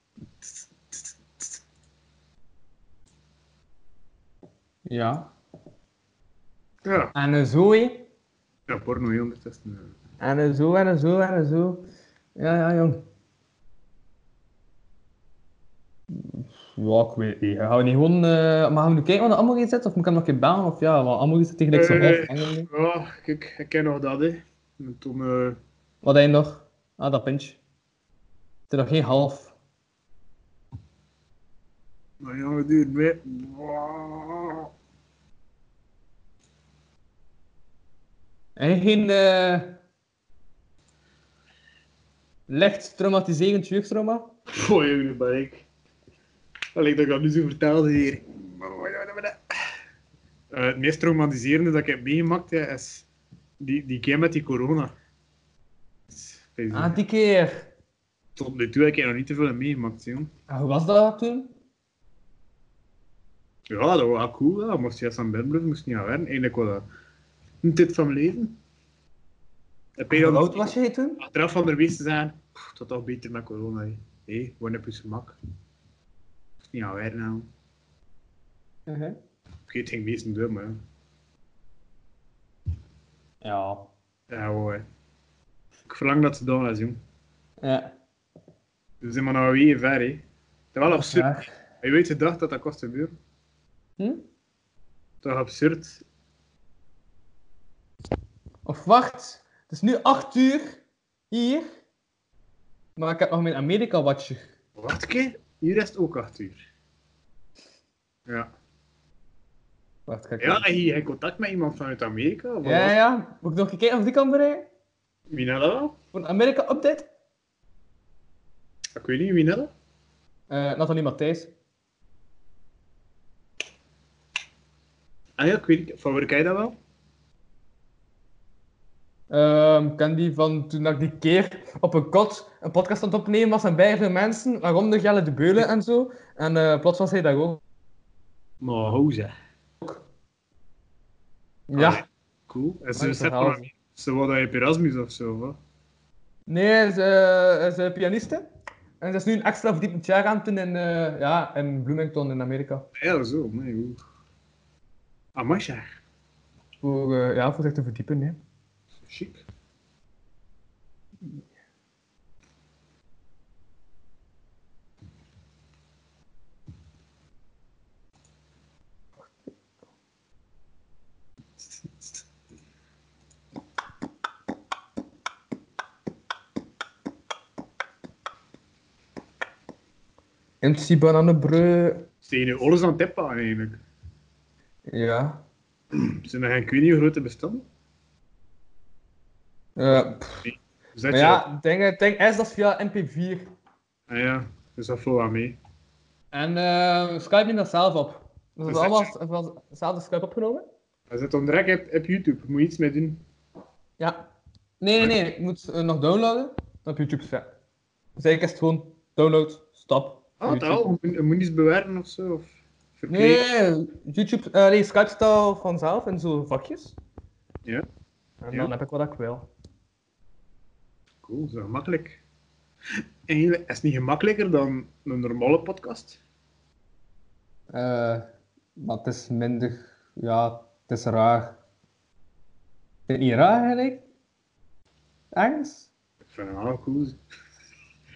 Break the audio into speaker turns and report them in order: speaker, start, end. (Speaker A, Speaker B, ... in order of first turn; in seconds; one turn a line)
Speaker A: 4.8-5.3
Speaker B: 6.8-7.1
Speaker A: 7.1-8.1
Speaker B: 8.7-9.9
Speaker A: 10.2-11.8
Speaker A: 12.3-13.0
Speaker A: 16.1-22.7
Speaker B: 21.7-25.6
Speaker A: 26.0-27.6
Speaker A: 28.7-29.5
Speaker B: 32.2-34.7
Speaker A: 38.6-39.8
Speaker A: 42.5-44.3
Speaker B: 44.5-45.6
Speaker B: 46.7-49.4
Speaker B: 50.5-53.1
Speaker B: 53.6-54.9
Speaker B: 56.1-57.0
Speaker A: 56.7-57.7
Speaker B: 58.4-60.3
Speaker A: 60.5-61.5
Speaker B: 63.7-66.8
Speaker B: 67.6-68.6
Speaker B: 70.0-70.7
Speaker A: 70.1-71.2
Speaker B: 71.2-75.4
Speaker B: 76.6-77.5
Speaker A: 78.9-79.2
Speaker B: 79.7-80.8
Speaker A: 83.4-83.9
Speaker B: 84.3-84.8
Speaker B: 85.9-87.0
Speaker A: 87.6-87.9
Speaker B: 89.0-93.2
Speaker A: 90.9-91.5
Speaker A: 94.0-94.2
Speaker B: 95.2-96.0
Speaker A: 98.6-101.7
Speaker A: 103.0-104.4
Speaker B: 104.8-106.6
Speaker A: 110.1-110.7
Speaker B: 110.4-112.9
Speaker A: 112.6-114.7
Speaker B: 115.3-116.0
Speaker A: 116.1-117.1
Speaker B: 118.9-119.7
Speaker A: 120.5-121.5
Speaker B: 125.4-126.8
Speaker A: 129.3-137.6
Speaker B: 138.6-139.3
Speaker A: 141.7-142.0
Speaker B: 141.7-145.6
Speaker A: 142.9-143.7
Speaker A: 146.5-148.4
Speaker A: 149.0-152.9
Speaker B: 152.9-154.0
Speaker B: 155.3-156.0
Speaker A: 156.8-158.4
Speaker B: 159.0-159.4
Speaker A: 180.6-182.1
Speaker B: 182.2-183.8
Speaker A: 184.9-185.4
Speaker B: 185.9-187.6
Speaker A: 189.8-190.5
Speaker B: 189.9-191.4
Speaker A: 191.1-193.5
Speaker B: 194.1-195.6
Speaker A: 196.3-200.7
Speaker B: 198.7-199.1
Speaker B: 201.1-203.2
Speaker A: 204.0-204.3
Speaker A: 204.8-207.5
Speaker A: 208.2-210.8
Speaker B: 210.4-213.5
Speaker A: 213.1-216.9
Speaker A: 218.4-219.5
Speaker B: 221.2-222.2
Speaker B: 223.3-226.2
Speaker A: 227.7-231.6
Speaker A: 233.1-234.0
Speaker A: 235.3-235.9
Speaker B: 236.2-237.2